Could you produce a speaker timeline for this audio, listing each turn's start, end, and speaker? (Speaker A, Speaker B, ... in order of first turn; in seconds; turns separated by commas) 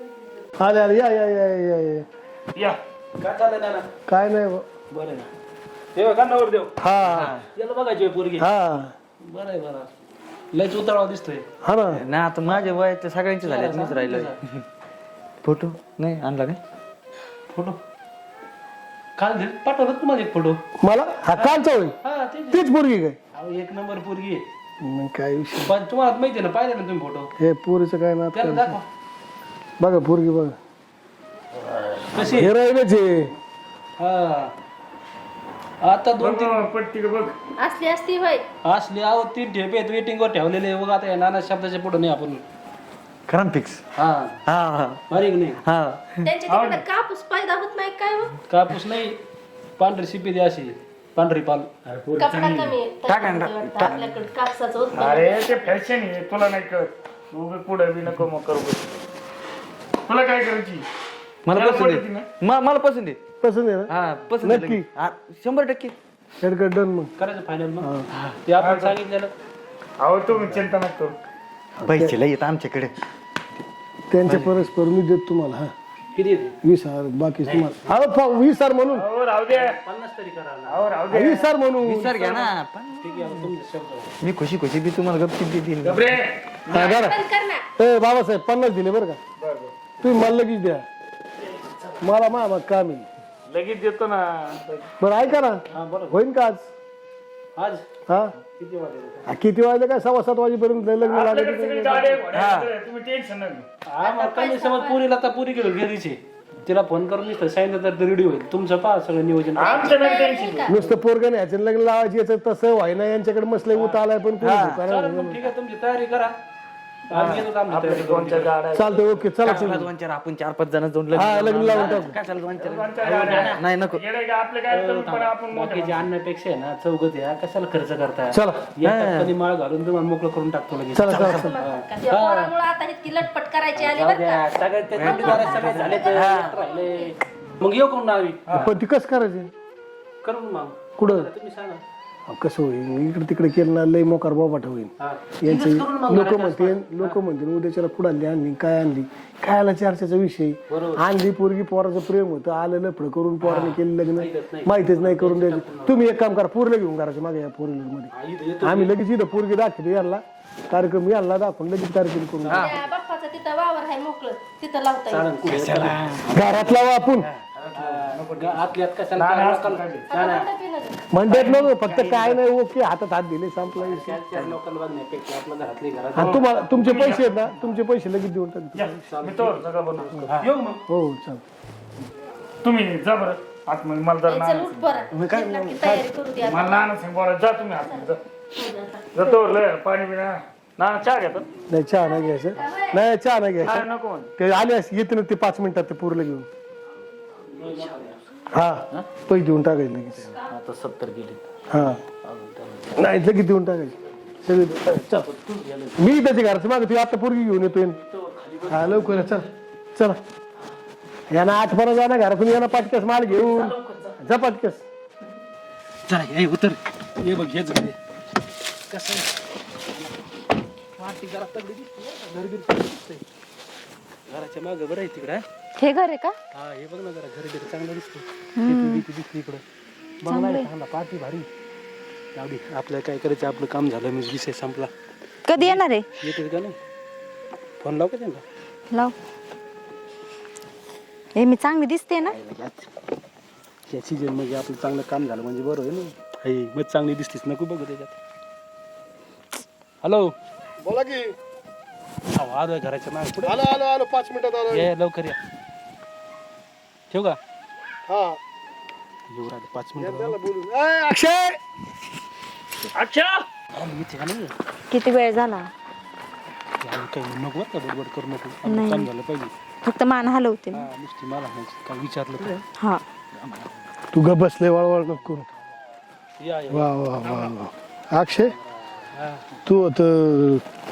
Speaker A: 0.6-2.1, Speaker B: 3.2-3.9, Speaker A: 4.1-4.7, Speaker B: 4.9-5.3, Speaker B: 6.0-6.8, Speaker A: 6.8-7.4, Speaker C: 7.1-7.5, Speaker B: 7.5-8.5, Speaker A: 8.4-8.9, Speaker B: 9.2-9.9, Speaker B: 10.5-11.5, Speaker A: 11.6-12.0, Speaker C: 11.9-14.6, Speaker B: 12.4-12.8, Speaker B: 13.4-14.3, Speaker C: 15.4-16.6, Speaker B: 17.5-17.8, Speaker B: 19.2-20.6, Speaker A: 20.8-22.0, Speaker B: 21.3-22.7, Speaker A: 22.5-23.2, Speaker B: 23.3-24.4, Speaker A: 24.8-25.7, Speaker B: 25.6-27.3, Speaker A: 27.4-28.8, Speaker B: 28.3-28.8, Speaker A: 29.8-30.6, Speaker B: 32.1-32.5, Speaker A: 32.2-33.3, Speaker B: 34.0-34.5, Speaker B: 35.8-36.7, Speaker D: 36.2-37.4, Speaker E: 37.6-38.5, Speaker B: 38.6-42.4, Speaker C: 43.3-43.8, Speaker B: 44.0-44.4, Speaker C: 44.5-46.2, Speaker B: 45.1-45.6, Speaker E: 46.2-48.3, Speaker D: 46.5-46.8, Speaker B: 48.5-49.2, Speaker B: 49.8-51.7, Speaker D: 51.9-53.9, Speaker E: 52.2-55.7, Speaker D: 55.0-58.9, Speaker D: 60.1-60.8, Speaker C: 61.5-63.2, Speaker D: 61.5-62.3, Speaker A: 63.4-64.9, Speaker C: 63.9-66.0, Speaker A: 66.4-67.1, Speaker B: 67.2-67.9, Speaker B: 68.5-69.3, Speaker D: 68.6-69.0, Speaker D: 70.0-71.2, Speaker A: 71.8-72.2, Speaker C: 71.9-72.9, Speaker A: 74.1-75.7, Speaker B: 74.2-74.6, Speaker B: 76.2-76.6, Speaker A: 76.6-79.1, Speaker B: 77.4-77.9, Speaker D: 78.9-79.7, Speaker B: 79.5-81.0, Speaker D: 80.7-81.5, Speaker A: 81.1-82.2, Speaker C: 81.8-83.5, Speaker B: 82.1-84.1, Speaker C: 84.2-86.2, Speaker D: 85.8-86.7, Speaker A: 86.7-87.2, Speaker E: 86.7-87.7, Speaker A: 87.8-89.2, Speaker D: 89.4-89.7, Speaker A: 90.0-90.8, Speaker D: 91.5-92.0, Speaker A: 92.0-93.1, Speaker D: 93.5-94.9, Speaker A: 95.0-96.7, Speaker B: 95.7-96.2, Speaker B: 97.6-97.8, Speaker A: 98.1-98.3, Speaker B: 98.5-99.2, Speaker A: 99.3-102.2, Speaker D: 101.1-103.7, Speaker C: 102.3-102.7, Speaker B: 103.9-110.0, Speaker E: 104.0-105.0, Speaker D: 109.6-110.8, Speaker E: 109.6-110.8, Speaker A: 110.7-115.5, Speaker B: 113.7-114.0, Speaker C: 114.4-114.8, Speaker B: 114.8-116.4, Speaker B: 117.1-118.5, Speaker C: 117.1-117.5, Speaker D: 117.6-119.6, Speaker A: 118.7-119.9, Speaker C: 119.4-124.0, Speaker A: 121.1-122.2, Speaker D: 121.7-122.0, Speaker D: 122.6-126.0, Speaker B: 123.0-123.6, Speaker B: 124.7-132.5, Speaker A: 128.3-128.7, Speaker C: 128.8-129.3, Speaker A: 130.9-131.6, Speaker C: 131.1-131.5, Speaker E: 131.2-137.2, Speaker B: 133.8-138.8, Speaker C: 134.9-136.6, Speaker A: 138.5-139.5, Speaker B: 140.2-141.8, Speaker A: 141.0-141.3, Speaker A: 142.3-162.7, Speaker B: 145.0-147.2, Speaker B: 150.7-151.1, Speaker B: 153.4-156.0, Speaker B: 158.1-159.0, Speaker B: 162.4-162.9, Speaker E: 162.6-165.3, Speaker B: 165.1-166.8, Speaker C: 165.5-166.2, Speaker A: 166.3-167.3, Speaker D: 167.6-170.1, Speaker B: 167.8-170.5, Speaker E: 170.1-171.0, Speaker A: 171.1-174.2, Speaker B: 171.3-172.4, Speaker B: 173.7-176.6, Speaker A: 176.1-179.0, Speaker D: 176.2-177.6, Speaker D: 178.8-180.5, Speaker B: 179.1-179.6, Speaker B: 180.3-180.8, Speaker A: 180.9-181.4, Speaker D: 182.6-185.0, Speaker E: 184.3-186.8, Speaker A: 185.1-186.1, Speaker D: 186.4-188.2, Speaker E: 187.8-189.4, Speaker D: 189.2-191.5, Speaker A: 191.7-196.5, Speaker E: 192.4-193.0, Speaker D: 193.6-194.3, Speaker D: 197.5-198.2, Speaker B: 197.5-198.2, Speaker A: 198.5-200.3, Speaker D: 200.3-201.5, Speaker A: 201.7-202.0, Speaker D: 202.1-203.1, Speaker A: 203.0-205.3, Speaker D: 205.2-206.1, Speaker A: 206.0-208.0, Speaker D: 208.1-209.3, Speaker A: 208.7-210.2, Speaker A: 211.3-214.8, Speaker D: 213.4-214.1, Speaker B: 216.1-218.0, Speaker B: 218.9-219.3, Speaker B: 221.0-223.2, Speaker B: 224.3-225.4, Speaker F: 225.8-226.4, Speaker B: 226.5-229.6, Speaker F: 228.6-229.0, Speaker B: 230.2-231.5, Speaker F: 230.3-230.7, Speaker B: 232.3-234.9, Speaker F: 235.5-236.1, Speaker B: 235.5-236.8, Speaker B: 237.8-238.4, Speaker F: 241.3-242.4, Speaker B: 242.3-242.7, Speaker B: 243.9-248.1, Speaker B: 250.0-250.3, Speaker A: 250.8-251.3, Speaker B: 252.3-253.6, Speaker A: 253.4-254.9, Speaker B: 254.7-255.4, Speaker B: 257.1-257.4, Speaker A: 258.1-258.4, Speaker B: 259.3-260.4, Speaker A: 260.0-261.6, Speaker D: 262.9-263.5, Speaker B: 263.7-264.5, Speaker F: 264.9-265.7, Speaker B: 266.8-269.5, Speaker F: 268.7-269.1, Speaker F: 269.8-270.9, Speaker B: 270.7-272.6, Speaker F: 272.8-273.0, Speaker A: 274.1-275.5, Speaker B: 276.4-277.6, Speaker A: 276.7-278.6, Speaker B: 278.4-279.4, Speaker A: 279.6-280.6